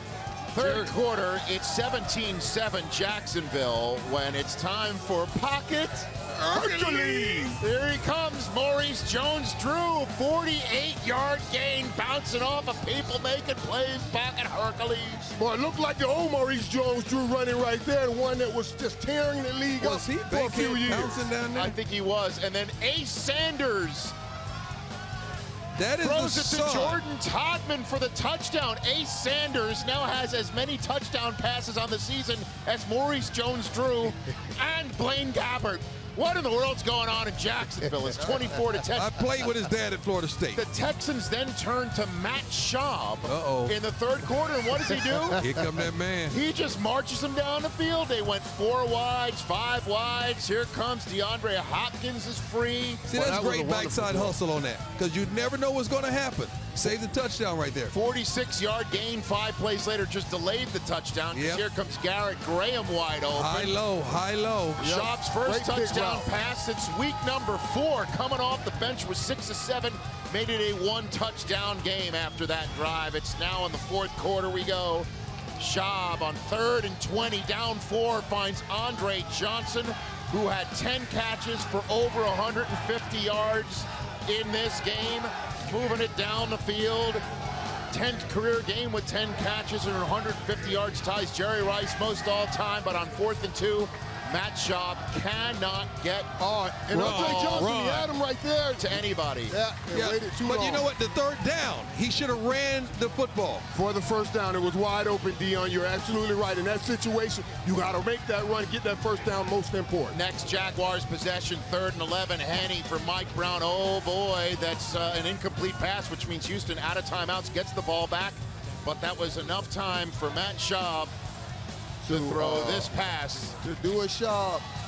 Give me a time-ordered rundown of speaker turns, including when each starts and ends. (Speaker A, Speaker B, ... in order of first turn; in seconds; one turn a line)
Speaker A: 0.5-6.1
Speaker B: 0.6-0.9
Speaker B: 6.4-7.5
Speaker C: 6.5-7.6
Speaker A: 7.6-15.3
Speaker C: 15.3-21.3
Speaker B: 19.8-21.8
Speaker A: 21.5-24.1
Speaker B: 25.7-27.0
Speaker A: 26.0-39.2
Speaker B: 38.9-40.6
Speaker A: 40.5-45.4
Speaker B: 43.2-43.8
Speaker B: 45.3-46.4
Speaker A: 46.3-53.0
Speaker B: 53.0-57.9
Speaker C: 53.1-54.4
Speaker A: 57.9-63.8
Speaker B: 61.3-61.6
Speaker B: 63.3-64.8
Speaker C: 64.8-66.3
Speaker A: 64.8-87.2
Speaker A: 87.9-96.3
Speaker C: 96.4-100.8
Speaker A: 96.8-97.7
Speaker B: 96.9-98.1
Speaker A: 98.8-99.5
Speaker B: 99.9-103.6
Speaker C: 103.7-110.2
Speaker A: 110.1-121.1
Speaker C: 122.0-122.9
Speaker A: 122.1-123.5
Speaker C: 123.6-124.7